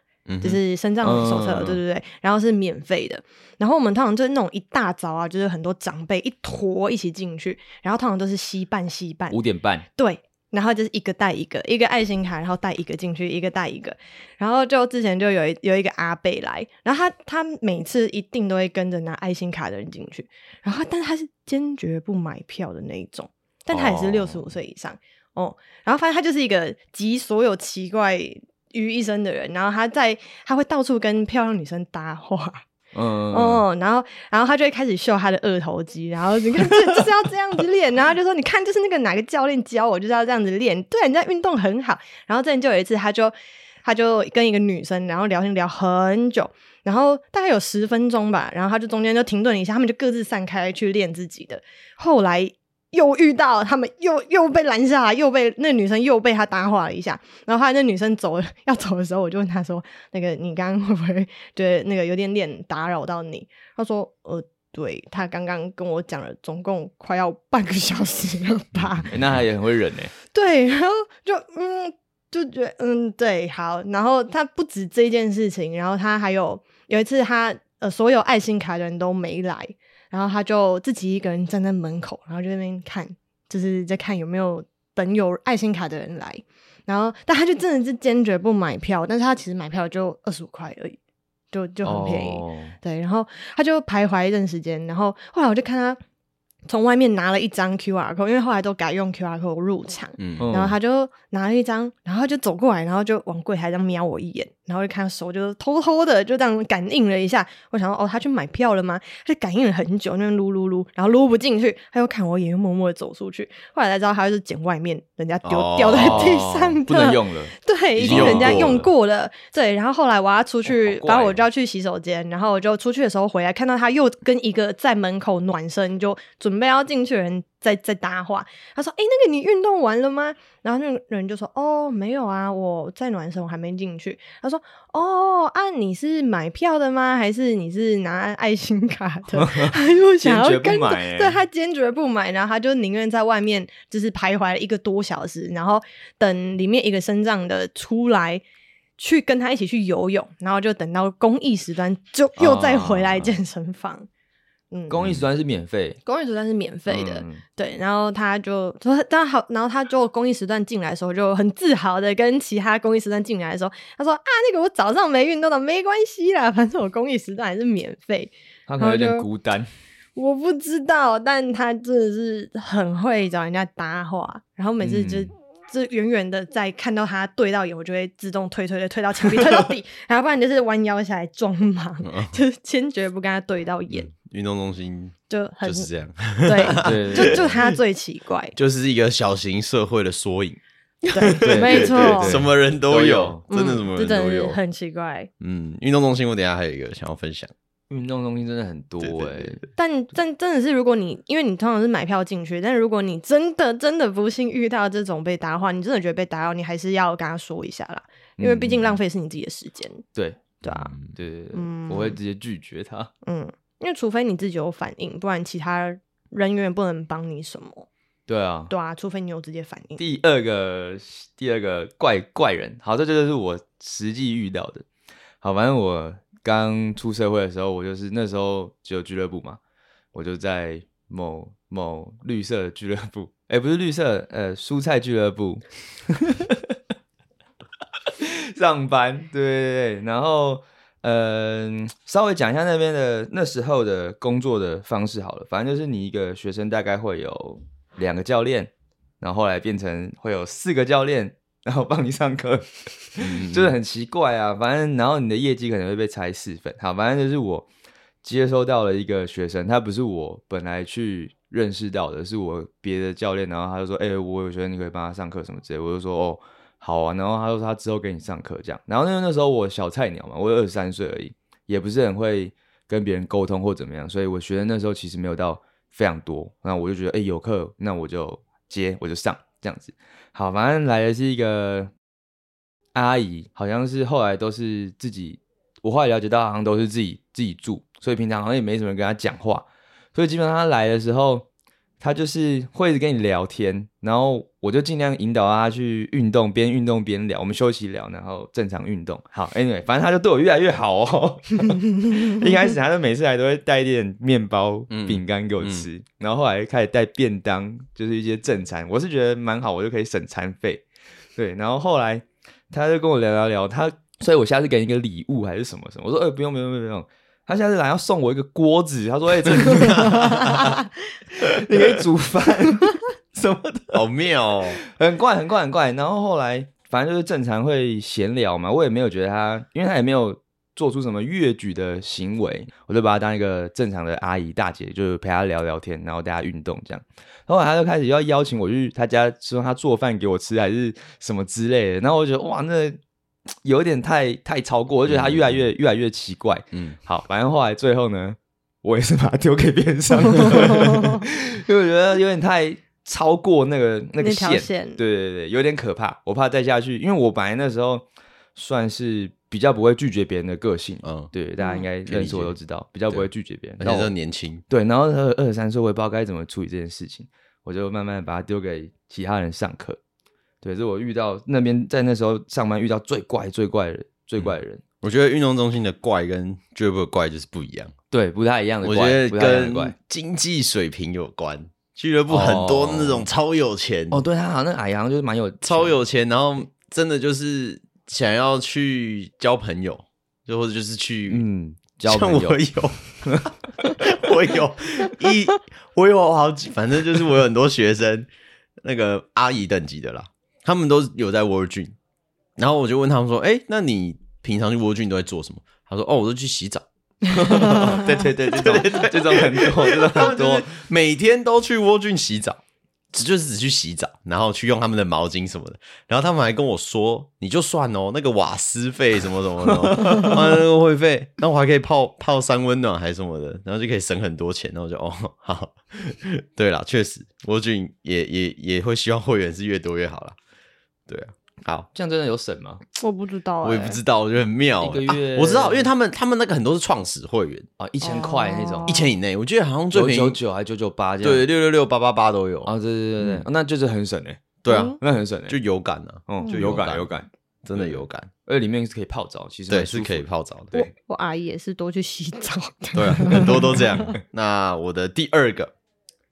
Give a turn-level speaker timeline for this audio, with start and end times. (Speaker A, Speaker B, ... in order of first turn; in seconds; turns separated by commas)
Speaker A: 0.3-0.6, Speaker B: 0.4-9.4, Speaker C: 1.0-1.8, Speaker C: 9.3-9.9, Speaker B: 10.0-32.6, Speaker C: 23.7-24.5, Speaker C: 32.9-33.6, Speaker B: 33.3-69.1, Speaker A: 68.8-69.1, Speaker C: 69.1-70.1, Speaker B: 70.3-91.0, Speaker B: 91.5-96.0, Speaker C: 91.8-92.8, Speaker B: 96.7-148.4, Speaker A: 100.2-100.5, Speaker C: 100.4-100.8, Speaker A: 115.4-116.4, Speaker C: 115.9-118.9, Speaker A: 118.0-118.8, Speaker C: 120.7-121.4, Speaker C: 139.3-141.4, Speaker B: 149.0-154.1, Speaker C: 152.4-153.3, Speaker B: 154.7-155.0, Speaker C: 154.9-156.0, Speaker B: 156.1-169.3, Speaker C: 156.9-157.4, Speaker C: 168.7-169.7, Speaker B: 170.2-184.1, Speaker C: 174.8-175.3, Speaker A: 182.0-182.4, Speaker A: 183.9-187.8, Speaker B: 185.3-185.9, Speaker B: 186.4-188.6, Speaker C: 186.8-187.5, Speaker A: 188.6-190.6, Speaker B: 191.1-192.4, Speaker A: 191.1-194.6, Speaker C: 191.4-193.4, Speaker B: 193.5-195.3, Speaker A: 195.4-197.5, Speaker C: 197.9-199.6, Speaker A: 199.0-199.6, Speaker B: 199.8-210.0, Speaker C: 208.4-209.0, Speaker C: 210.2-213.1, Speaker A: 210.7-211.1, Speaker B: 211.5-212.2, Speaker B: 213.2-217.9, Speaker C: 218.3-218.7, Speaker B: 218.7-220.0, Speaker C: 220.0-224.8, Speaker C: 225.4-229.6, Speaker C: 230.1-236.7, Speaker C: 238.2-257.7, Speaker A: 253.2-253.8, Speaker C: 258.2-281.9, Speaker C: 282.9-291.5, Speaker C: 292.0-310.8, Speaker A: 304.9-305.9, Speaker C: 311.4-320.8, Speaker A: 319.5-320.8, Speaker C: 321.4-324.0, Speaker A: 323.9-324.8, Speaker C: 324.8-343.0, Speaker C: 343.6-364.1, Speaker A: 345.1-345.7, Speaker B: 350.8-351.2, Speaker B: 354.2-355.0, Speaker A: 361.0-361.3, Speaker B: 361.6-361.9, Speaker A: 362.1-362.6, Speaker A: 363.8-364.6, Speaker C: 364.7-370.0, Speaker C: 370.6-374.8, Speaker A: 374.4-377.9, Speaker C: 378.1-379.9, Speaker A: 378.8-384.2, Speaker C: 382.3-383.3, Speaker C: 384.1-386.0, Speaker A: 385.6-391.4, Speaker C: 391.3-392.6, Speaker A: 392.1-398.3, Speaker C: 393.2-393.5, Speaker A: 398.8-402.0, Speaker A: 402.6-412.6, Speaker C: 407.3-410.7, Speaker A: 413.1-430.4, Speaker C: 419.7-420.4, Speaker A: 431.1-431.9, Speaker C: 431.9-432.8, Speaker B: 433.0-434.0, Speaker A: 433.6-437.7, Speaker C: 434.8-435.9, Speaker C: 437.8-439.0, Speaker B: 438.0-439.1, Speaker A: 438.9-440.4, Speaker C: 439.9-441.5, Speaker A: 441.2-443.4, Speaker C: 442.6-445.6, Speaker A: 444.6-447.1, Speaker B: 444.7-445.0, Speaker C: 446.3-450.9, Speaker A: 447.6-448.3, Speaker A: 449.7-450.8, Speaker B: 450.7-454.1, Speaker A: 452.9-455.7